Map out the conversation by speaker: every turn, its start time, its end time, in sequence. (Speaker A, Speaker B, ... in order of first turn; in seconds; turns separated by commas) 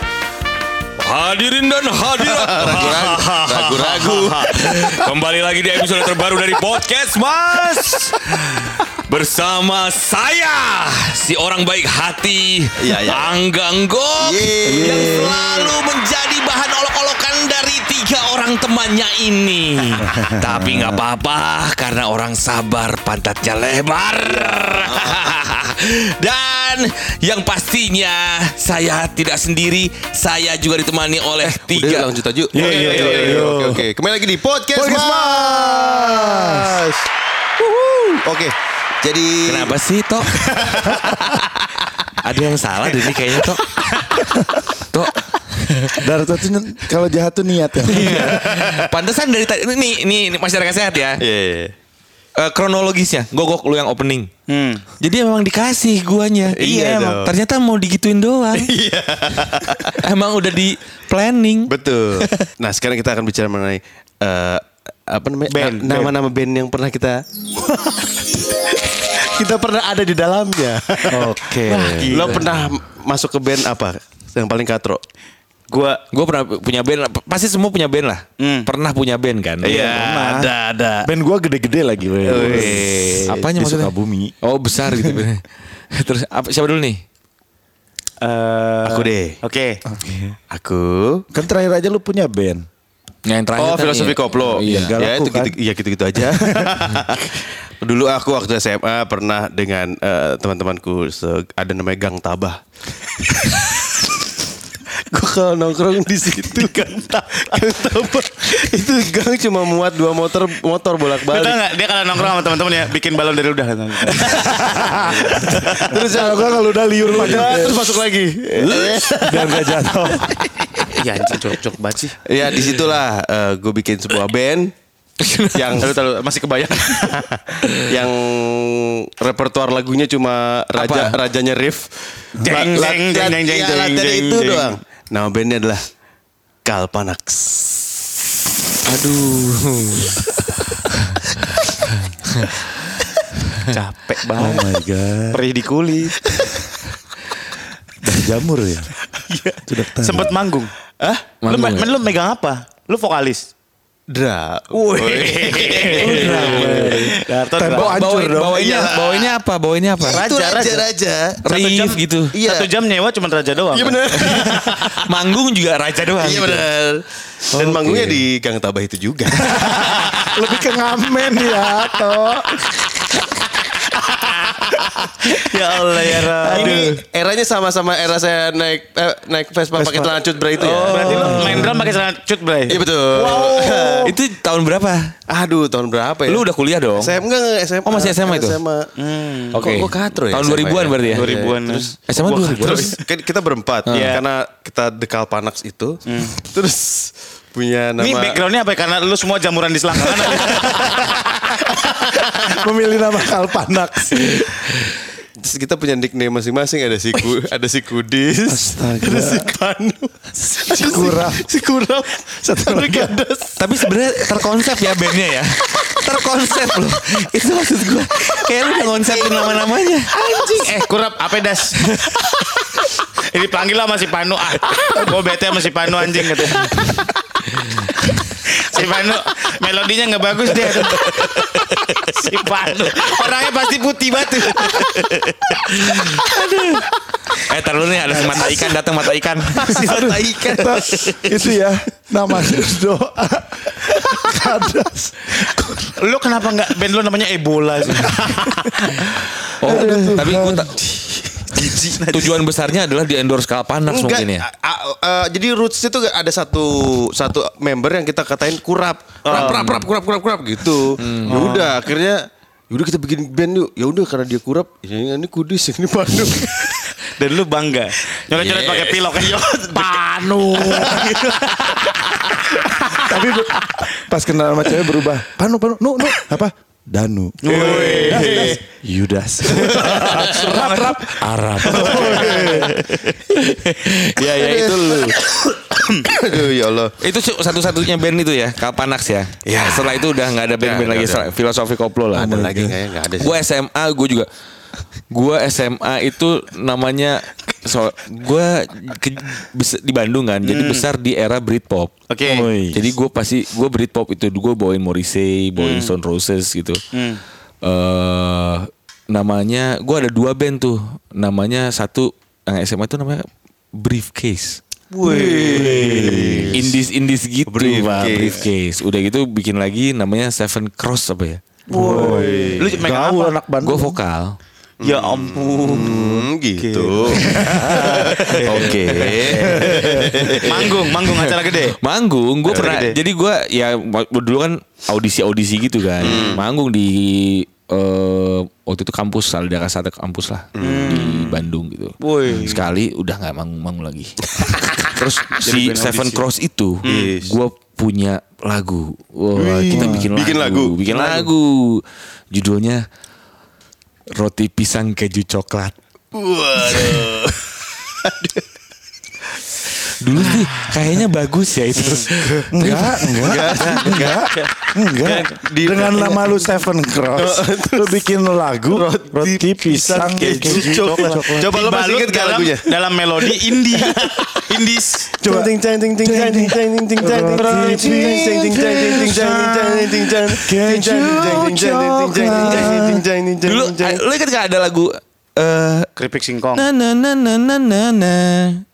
Speaker A: 1.0-32.1, Speaker B: 2.2-5.0, Speaker B: 12.8-13.3, Speaker B: 14.2-15.5, Speaker C: 14.7-15.7, Speaker C: 20.1-21.0, Speaker B: 31.4-37.0, Speaker C: 32.5-33.9, Speaker D: 32.5-33.4, Speaker C: 34.7-36.8, Speaker B: 37.6-39.7, Speaker A: 39.5-40.4, Speaker B: 40.4-41.4, Speaker A: 42.2-43.7, Speaker A: 44.9-46.1, Speaker C: 46.0-48.6, Speaker A: 47.8-51.2, Speaker B: 48.2-48.7, Speaker B: 51.2-51.7, Speaker A: 52.4-54.3, Speaker D: 54.5-54.8, Speaker A: 55.0-58.7, Speaker B: 56.5-57.3, Speaker B: 58.5-59.9, Speaker A: 60.0-62.5, Speaker B: 61.7-67.2, Speaker D: 65.5-66.1, Speaker B: 68.9-75.0, Speaker C: 71.1-72.2, Speaker D: 71.6-72.5, Speaker A: 72.2-72.7, Speaker D: 75.7-76.0, Speaker A: 76.1-79.9, Speaker D: 78.4-78.7, Speaker B: 79.6-81.1, Speaker C: 79.7-80.5, Speaker C: 81.0-84.3, Speaker B: 82.2-83.3, Speaker A: 82.3-87.0, Speaker C: 84.8-85.2, Speaker D: 88.2-89.8, Speaker B: 88.8-89.4, Speaker C: 89.8-90.3, Speaker B: 90.5-91.2, Speaker C: 91.3-92.7, Speaker A: 93.2-95.0, Speaker B: 93.5-102.6, Speaker C: 94.6-95.5, Speaker C: 96.2-96.7, Speaker B: 103.2-103.7, Speaker B: 105.0-111.6, Speaker D: 111.2-115.7, Speaker C: 114.2-117.9, Speaker B: 114.6-119.7, Speaker C: 118.5-120.7, Speaker D: 120.9-122.2, Speaker B: 122.2-124.7, Speaker A: 125.2-125.8, Speaker B: 125.5-125.9, Speaker D: 125.8-127.4, Speaker B: 127.8-135.8, Speaker A: 130.7-131.2, Speaker C: 132.4-132.6, Speaker D: 132.4-134.8, Speaker B: 136.6-137.9, Speaker A: 138.8-141.4, Speaker D: 143.7-144.7, Speaker C: 144.4-145.4, Speaker D: 145.3-146.2, Speaker C: 148.0-148.9, Speaker D: 149.2-150.7, Speaker C: 149.6-150.3, Speaker B: 151.0-151.3, Speaker A: 151.4-151.9, Speaker D: 151.4-153.5, Speaker B: 154.1-157.0, Speaker D: 154.7-158.0, Speaker C: 155.9-158.6, Speaker A: 157.7-160.2, Speaker B: 158.5-159.3, Speaker B: 160.0-161.4, Speaker D: 160.1-160.8, Speaker A: 161.4-162.3, Speaker D: 161.4-164.0, Speaker B: 162.3-162.7, Speaker B: 163.7-165.1, Speaker A: 164.1-166.7, Speaker B: 166.2-170.3, Speaker A: 167.7-168.2, Speaker C: 169.4-172.6, Speaker B: 174.1-181.7, Speaker D: 175.2-177.0, Speaker C: 176.5-176.8, Speaker C: 179.7-180.2, Speaker D: 180.6-184.1, Speaker A: 180.8-181.6, Speaker C: 180.9-182.0, Speaker B: 182.7-184.1, Speaker A: 184.0-185.1, Speaker B: 185.3-186.4, Speaker A: 186.3-187.2, Speaker B: 187.0-188.9, Speaker A: 187.8-188.6, Speaker D: 189.0-189.6, Speaker A: 189.5-191.3, Speaker B: 189.6-191.8, Speaker D: 191.1-192.9, Speaker A: 192.1-193.0, Speaker B: 192.4-198.4, Speaker A: 193.8-194.2, Speaker D: 193.9-194.2, Speaker D: 196.1-196.4, Speaker D: 198.0-201.2, Speaker B: 200.0-201.2, Speaker C: 202.3-204.4, Speaker B: 205.4-214.3, Speaker C: 208.5-209.5, Speaker C: 210.6-211.5, Speaker C: 212.4-213.2, Speaker A: 213.6-220.1, Speaker D: 220.3-221.8, Speaker B: 220.3-220.7, Speaker A: 221.8-222.5, Speaker D: 223.3-226.9, Speaker D: 228.4-235.2, Speaker A: 235.7-239.7, Speaker D: 238.1-238.4, Speaker C: 239.6-245.9, Speaker D: 239.7-240.7, Speaker B: 239.7-241.3, Speaker D: 245.9-249.0, Speaker C: 249.6-250.8, Speaker A: 249.6-250.8, Speaker B: 251.5-252.1, Speaker A: 251.9-254.4, Speaker D: 252.0-252.3, Speaker B: 253.9-266.8, Speaker D: 259.2-259.7, Speaker A: 259.3-259.9, Speaker A: 261.0-261.6, Speaker D: 261.1-261.8, Speaker D: 267.1-273.0, Speaker B: 268.3-272.2, Speaker C: 270.2-271.2, Speaker C: 272.9-282.7, Speaker D: 277.4-278.6, Speaker B: 277.5-278.6, Speaker B: 279.5-280.6, Speaker D: 279.7-286.1, Speaker B: 281.7-282.6, Speaker B: 284.2-285.2, Speaker B: 286.0-286.9, Speaker A: 287.0-294.3, Speaker B: 289.4-291.3, Speaker B: 292.1-293.4, Speaker A: 295.1-301.9, Speaker D: 300.4-300.9, Speaker D: 302.1-302.5, Speaker C: 302.2-302.9, Speaker A: 302.7-306.8, Speaker D: 305.6-305.9, Speaker D: 306.9-307.2, Speaker A: 307.6-314.6, Speaker D: 314.9-315.8, Speaker B: 315.0-316.8, Speaker C: 315.5-316.6, Speaker A: 315.9-321.4, Speaker B: 317.5-318.4, Speaker C: 321.7-324.0, Speaker D: 321.7-323.4, Speaker B: 321.7-322.8, Speaker A: 323.6-324.4, Speaker B: 324.8-330.8, Speaker D: 324.8-331.8, Speaker C: 327.3-328.2, Speaker A: 328.5-329.6, Speaker C: 329.3-330.4, Speaker A: 330.9-352.8, Speaker B: 332.5-332.8, Speaker D: 332.5-333.0, Speaker B: 336.0-336.4, Speaker B: 340.6-341.2, Speaker D: 340.6-341.4, Speaker D: 342.0-342.6, Speaker D: 345.4-346.2, Speaker D: 346.8-347.1, Speaker B: 346.9-347.4, Speaker B: 349.3-351.3, Speaker C: 349.7-350.1, Speaker A: 354.2-355.7, Speaker B: 356.1-358.4, Speaker A: 360.0-364.1, Speaker D: 361.8-362.1, Speaker C: 362.5-371.5, Speaker B: 363.2-364.2, Speaker D: 364.1-365.3, Speaker B: 365.0-366.5, Speaker B: 367.1-368.1, Speaker B: 368.7-374.5, Speaker D: 370.2-375.1, Speaker B: 375.2-384.0, Speaker C: 375.2-383.0, Speaker D: 377.4-378.2, Speaker A: 382.2-382.9, Speaker A: 383.4-385.9, Speaker D: 385.9-386.6, Speaker A: 386.5-388.6